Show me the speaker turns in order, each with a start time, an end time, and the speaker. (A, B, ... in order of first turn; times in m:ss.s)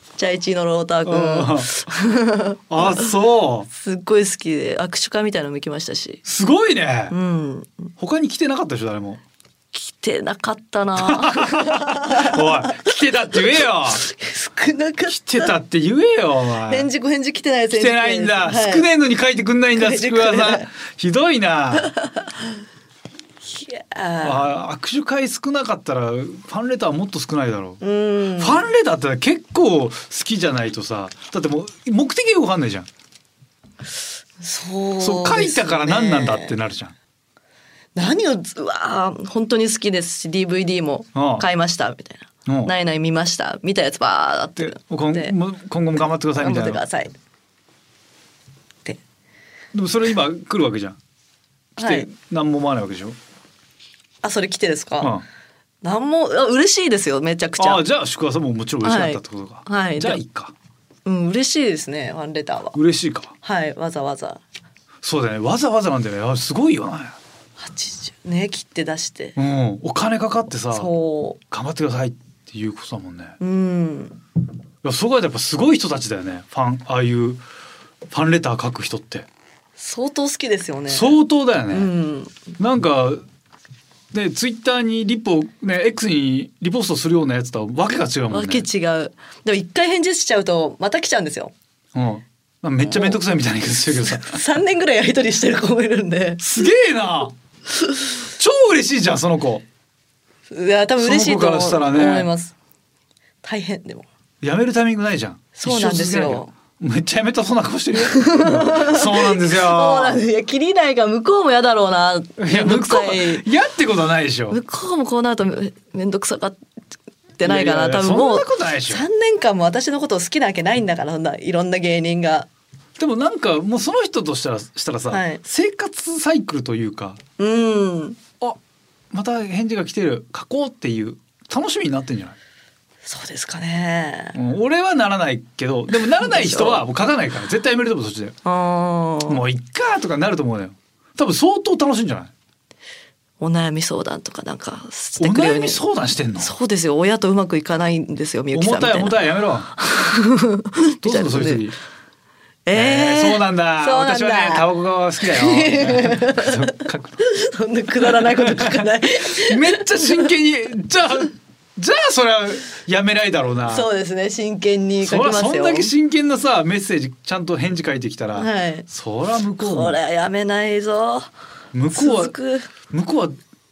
0:00.2-0:02.9 A
0:01.0-0:01.9 B
0:02.7-0:03.7 B
0:03.7-0:06.2 A
0:06.2-0:07.2 B
0:07.1-0:07.9 A
0:08.0-0:09.2 B
0:09.7-0:15.5 A
0:11.0-0:14.0 B
0:15.1-0:16.9 B
0:16.7-0:18.8 A
0:17.7-0:21.9 B
0:19.7-0:20.7 A
0:21.8-0:22.4 A
0:23.4-0:24.5 A
0:24.2-0:27.8 B
0:27.8-0:28.7 A
0:28.4-0:32.9 B
0:34.4-0:36.5 A
0:35.0-0:36.9 B
0:37.9-0:45.3 A
0:41.1-0:41.4 B
0:42.5-0:42.7 B
0:44.6-0:46.8 B
0:46.3-0:47.1 A
0:49.7-0:51.0 B
0:51.8-0:52.1 A
0:51.8-0:53.2 B
0:54.2-0:55.1 A
0:55.0-0:55.2 B
0:55.8-0:57.8 A
0:57.6-1:00.5 B
0:58.8-1:00.2 A
1:01.0-1:02.8 A
1:02.7-1:03.3 B
1:03.4-1:04.4 A
1:05.0-1:07.2 B
1:07.6-1:09.4 A
1:09.4-1:10.9 B
1:10.7-1:11.4 A
1:11.5-1:13.4 B
1:13.4-1:14.2 A
1:14.8-1:17.4 B
1:18.1-1:19.3 B
1:19.8-1:21.2 A
1:20.9-1:21.9 B
1:21.7-1:22.4 A
1:22.6-1:23.2 B
1:24.1-1:28.7 B
1:28.3-1:31.5 A
1:31.9-1:34.4 B
1:32.8-1:33.2 A
1:34.2-1:36.4 A
1:36.4-1:37.4 B
1:38.2-1:39.6 B
1:40.5-1:42.5 A
1:41.0-1:42.3 B
1:43.4-1:44.1 A
1:44.4-1:50.2 B
1:45.5-1:46.5 A
1:48.0-1:53.4 A
1:52.4-1:54.6 B
1:54.5-1:56.6 A
1:57.4-2:02.5 A
1:57.4-1:59.0 B
2:03.0-2:07.2 B
2:05.1-2:05.4 A
2:07.4-2:08.2 A
2:09.1-2:12.4 B
2:13.0-2:14.4 A
2:14.3-2:18.4 B
2:16.2-2:16.8 A
2:18.4-2:19.4 A
2:19.3-2:22.3 B
2:23.4-2:25.8 A
2:25.2-2:26.5 B
2:26.4-2:31.6 A
2:28.5-2:29.7 B
2:31.0-2:31.8 B
2:32.6-2:34.7 A
2:32.7-2:37.2 B
2:35.2-2:40.3 A
2:38.0-2:43.9 B
2:43.7-2:45.9 A
2:45.0-2:50.0 B
2:48.3-2:48.9 A
2:49.6-2:51.3 A
2:51.7-2:53.4 B
2:51.9-2:52.7 A